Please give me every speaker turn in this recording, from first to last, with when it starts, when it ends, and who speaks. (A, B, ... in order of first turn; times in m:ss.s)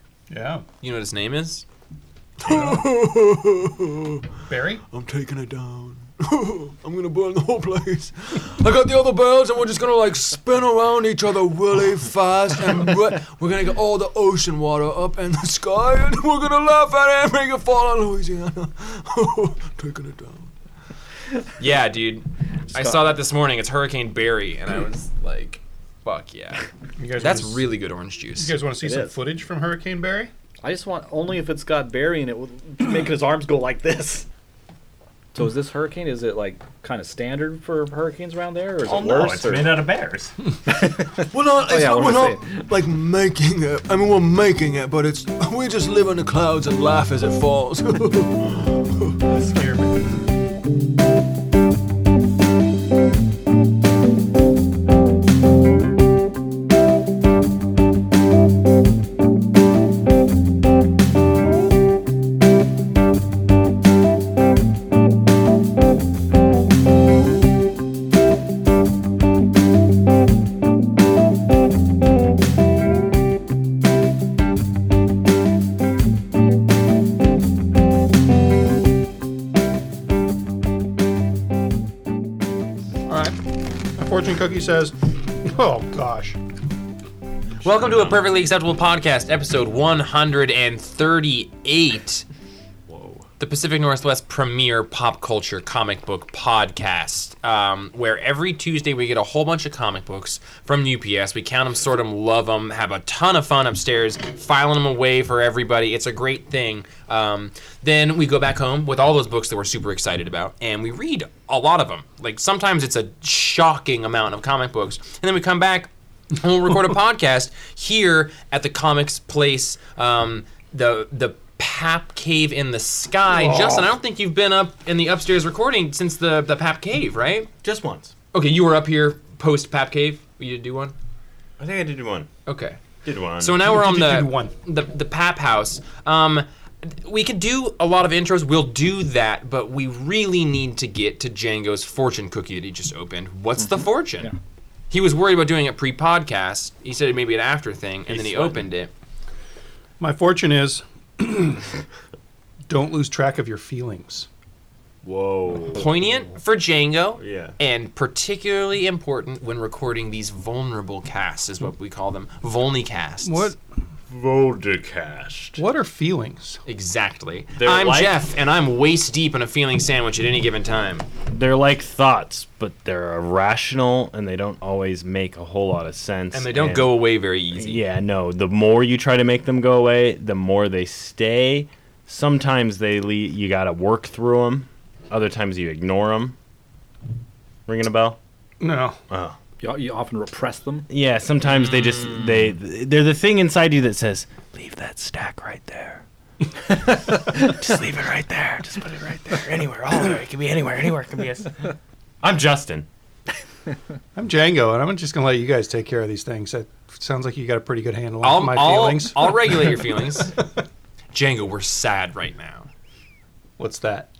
0:00.3-0:00.6 A
0:00.8-0:01.6 B
0:02.4-0:04.3 C
0:02.4-0:02.8 A
0:04.5-0:04.8 A
0:04.9-0:20.5 C
0:21.6-0:28.6 B
0:22.7-0:23.1 D
0:27.0-0:27.6 A
0:28.4-0:30.3 A
0:28.8-0:29.2 D
0:30.6-0:34.3 D
0:35.3-0:39.8 D
0:38.8-0:40.4 E
0:40.7-0:42.6 D
0:41.3-0:49.2 C
0:49.2-0:50.2 E
1:23.1-1:23.4 A
1:24.0-1:26.4 A
1:27.6-1:32.2 B
1:32.9-1:33.2 E
1:33.4-2:07.5 B
2:03.3-2:03.9 A
2:07.6-2:08.1 E
2:08.3-2:10.9 B
2:11.6-2:12.3 E
2:12.4-2:12.8 B
2:13.0-2:13.6 E
2:13.4-2:24.3 B
2:13.6-2:14.5 A
2:24.9-2:28.9 B
2:28.1-2:28.6 E
2:30.0-2:31.7 A
2:32.7-2:34.3 A
2:35.0-2:35.9 E
2:35.7-2:43.5 B
2:37.2-2:37.6 E
2:43.2-2:43.6 A
2:44.1-2:45.6 E
2:45.6-2:46.6 A
2:46.6-2:51.1 B
2:47.5-2:48.1 E
2:51.3-2:57.0 E
2:56.3-2:57.8 B
2:57.5-3:06.3 E
3:07.7-3:08.2 E
3:08.6-3:09.0 A
3:09.1-3:09.4 E
3:09.6-3:10.9 D
3:10.9-3:16.0 E
3:11.6-3:12.3 B
3:16.6-3:22.9 E
3:24.1-3:30.1 A
3:28.2-3:30.3 B
3:31.1-3:32.7 B
3:33.6-3:34.1 A